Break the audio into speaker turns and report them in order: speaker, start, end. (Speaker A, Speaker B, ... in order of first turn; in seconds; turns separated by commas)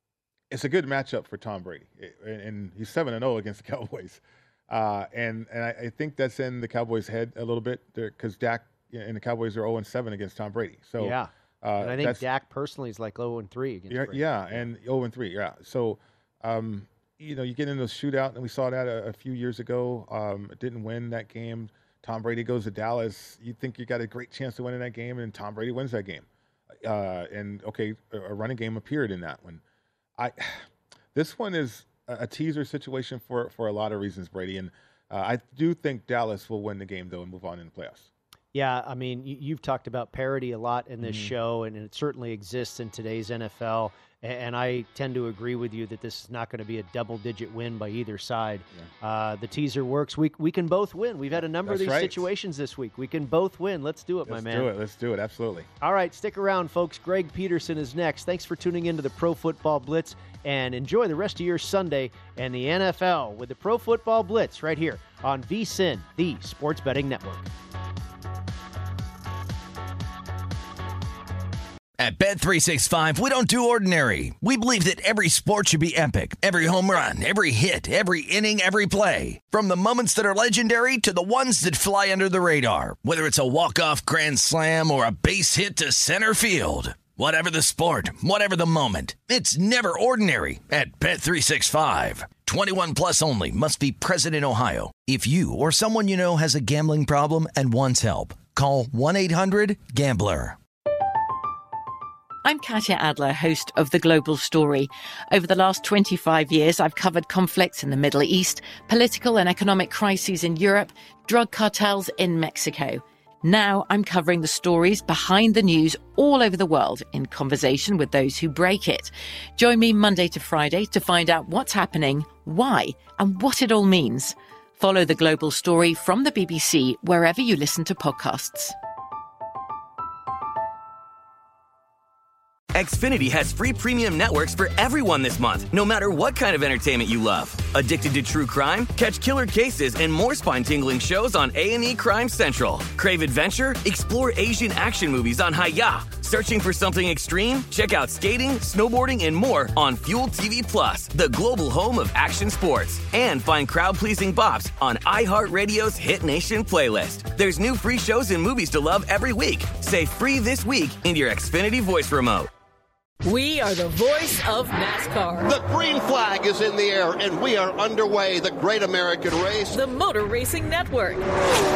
Speaker A: 0.5-12.2, Speaker B: 11.0-14.7, Speaker A: 13.9-29.6, Speaker A: 30.2-38.1, Speaker B: 38.5-54.7, Speaker A: 41.0-41.3, Speaker A: 51.4-52.3, Speaker A: 54.3-55.7, Speaker B: 55.8-67.5, Speaker C: 72.0-100.6, Speaker D: 102.4-128.7, Speaker E: 132.7-162.5, Speaker F: 163.2-165.5, Speaker G: 165.4-169.8, Speaker F: 169.7-171.3